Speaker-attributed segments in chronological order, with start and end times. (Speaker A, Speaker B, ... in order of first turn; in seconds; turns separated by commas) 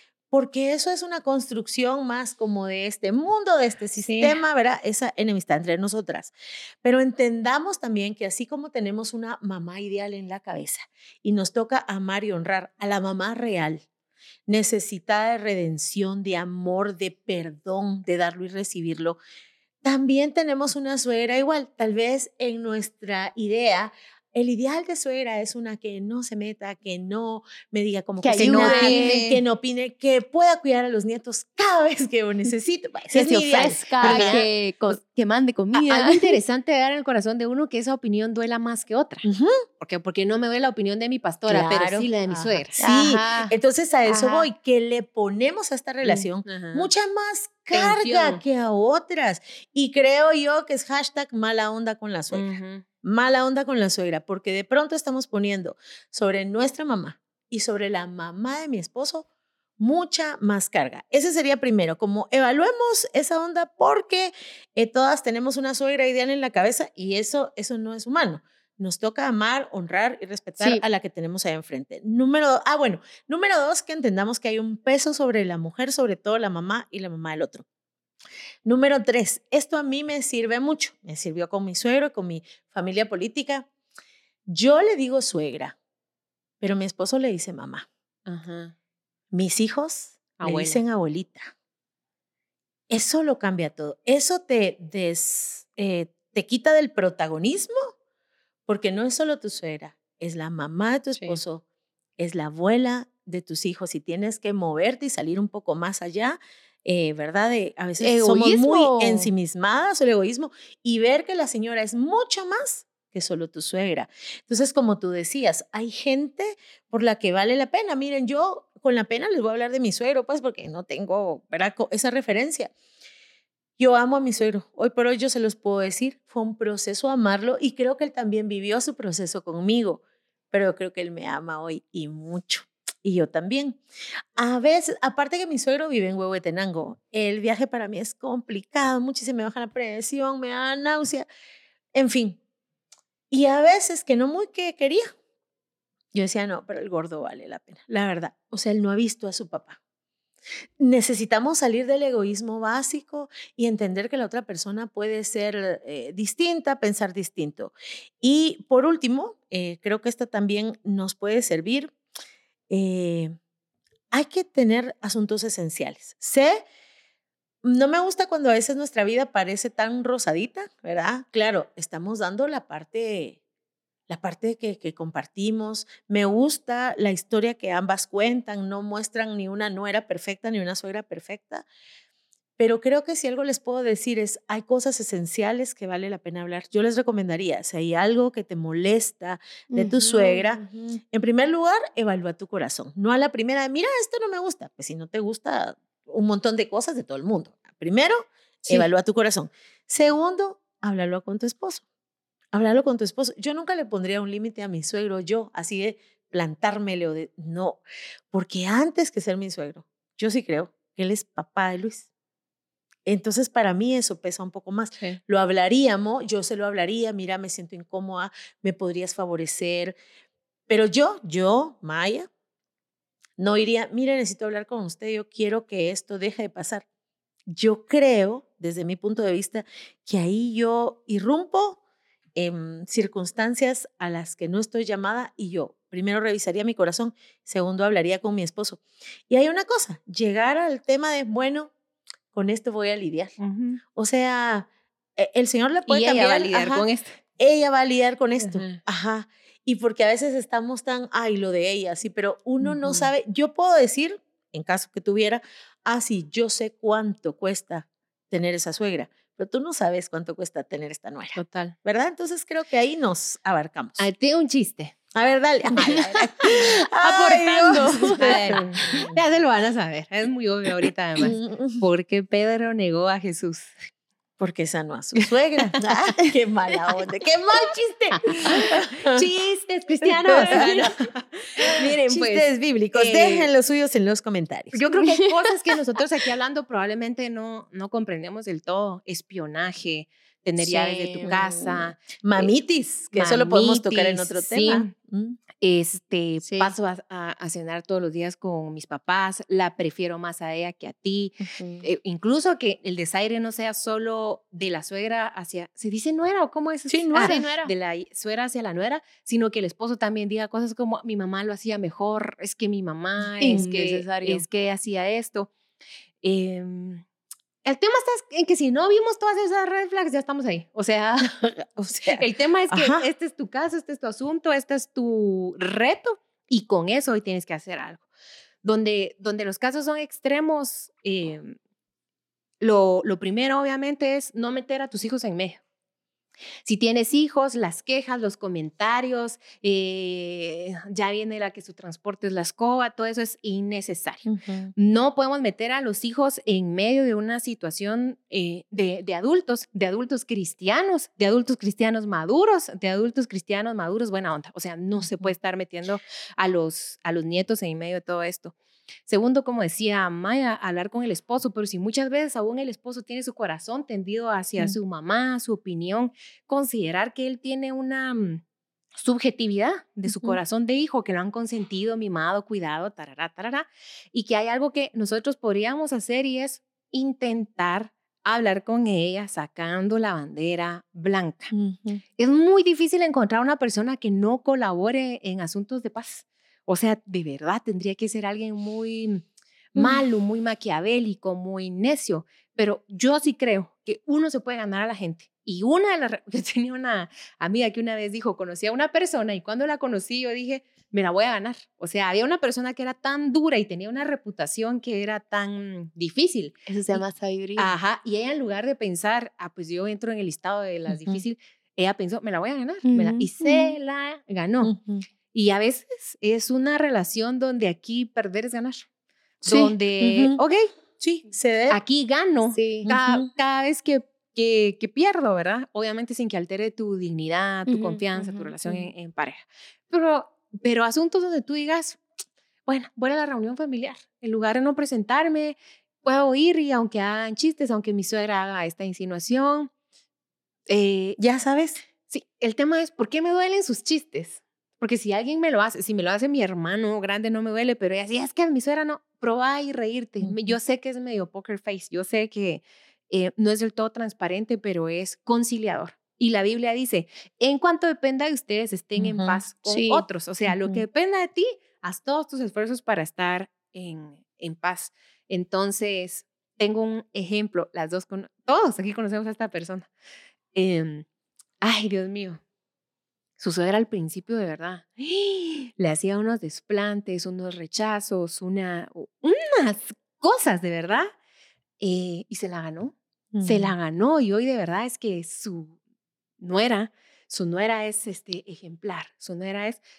Speaker A: 0.3-13.8, Speaker B: 4.0-4.4, Speaker A: 14.5-19.2, Speaker A: 19.8-34.4, Speaker C: 28.2-29.2, Speaker B: 28.3-29.4, Speaker C: 33.1-36.4, Speaker B: 34.0-34.5, Speaker B: 35.7-39.2, Speaker A: 39.2-39.6, Speaker B: 39.8-42.8, Speaker A: 41.5-59.3, Speaker C: 42.8-44.5, Speaker B: 46.0-46.9, Speaker B: 47.7-48.4, Speaker B: 52.3-52.8, Speaker A: 59.8-77.6, Speaker A: 78.6-83.7, Speaker A: 84.5-85.8, Speaker A: 86.6-87.9, Speaker B: 88.2-88.7, Speaker A: 89.3-91.5, Speaker B: 90.4-90.8, Speaker A: 92.9-97.8, Speaker A: 98.7-101.6, Speaker A: 102.2-122.7, Speaker C: 108.0-109.3, Speaker A: 123.8-133.8, Speaker A: 134.3-141.3, Speaker A: 141.9-142.4, Speaker A: 143.3-145.1, Speaker A: 146.1-149.8, Speaker A: 150.8-161.9, Speaker A: 162.7-163.3, Speaker A: 164.1-166.6, Speaker A: 167.6-173.4, Speaker A: 174.1-181.7, Speaker A: 182.6-201.8, Speaker C: 189.7-190.6, Speaker A: 202.5-212.1, Speaker A: 213.1-220.0, Speaker A: 220.7-222.3, Speaker A: 223.4-226.8, Speaker A: 227.5-231.8, Speaker A: 232.3-241.7, Speaker A: 242.3-243.3, Speaker B: 243.4-243.8, Speaker A: 243.9-246.9, Speaker B: 245.9-247.2, Speaker A: 247.4-264.0, Speaker B: 248.4-248.8, Speaker B: 252.6-253.1, Speaker B: 261.3-261.7, Speaker B: 264.0-264.9, Speaker A: 265.1-269.2, Speaker C: 265.8-269.0, Speaker B: 268.2-273.7, Speaker A: 271.2-271.8, Speaker A: 274.4-279.2, Speaker B: 278.4-281.1, Speaker A: 280.0-280.9, Speaker C: 280.3-280.9, Speaker B: 281.6-283.5, Speaker A: 281.7-284.8, Speaker B: 284.7-292.5, Speaker C: 284.9-285.5, Speaker C: 290.6-291.3, Speaker A: 291.2-295.4, Speaker B: 293.1-294.9, Speaker B: 295.6-315.5, Speaker C: 296.4-296.7, Speaker A: 301.4-301.9, Speaker A: 306.9-307.4, Speaker C: 307.1-307.7, Speaker C: 313.4-314.4, Speaker B: 316.2-317.0, Speaker B: 317.6-321.4, Speaker A: 321.2-323.1, Speaker B: 322.1-328.0, Speaker B: 328.6-331.6, Speaker B: 332.6-335.6, Speaker B: 336.6-358.5, Speaker A: 344.2-344.7, Speaker B: 359.1-368.4, Speaker B: 368.9-381.5, Speaker A: 370.1-370.4, Speaker A: 381.5-382.0, Speaker B: 382.2-407.0, Speaker A: 389.8-390.0, Speaker C: 406.7-407.7, Speaker B: 407.6-414.8, Speaker A: 410.9-411.2, Speaker C: 412.9-413.6, Speaker A: 414.6-415.1, Speaker B: 415.3-418.8, Speaker B: 419.4-420.7, Speaker C: 419.4-419.7, Speaker A: 420.0-420.4, Speaker A: 421.0-421.8, Speaker B: 421.7-432.0, Speaker C: 422.5-422.9, Speaker A: 422.9-423.3, Speaker C: 427.7-428.9, Speaker B: 432.7-439.7, Speaker B: 440.7-441.2, Speaker A: 441.2-441.8, Speaker B: 442.1-469.9, Speaker A: 450.2-450.6, Speaker A: 459.0-459.4, Speaker C: 459.6-460.0, Speaker A: 460.5-460.8, Speaker B: 470.5-471.1, Speaker B: 471.6-472.4, Speaker B: 473.4-481.1, Speaker B: 481.8-485.8, Speaker A: 483.3-483.7, Speaker B: 486.4-489.8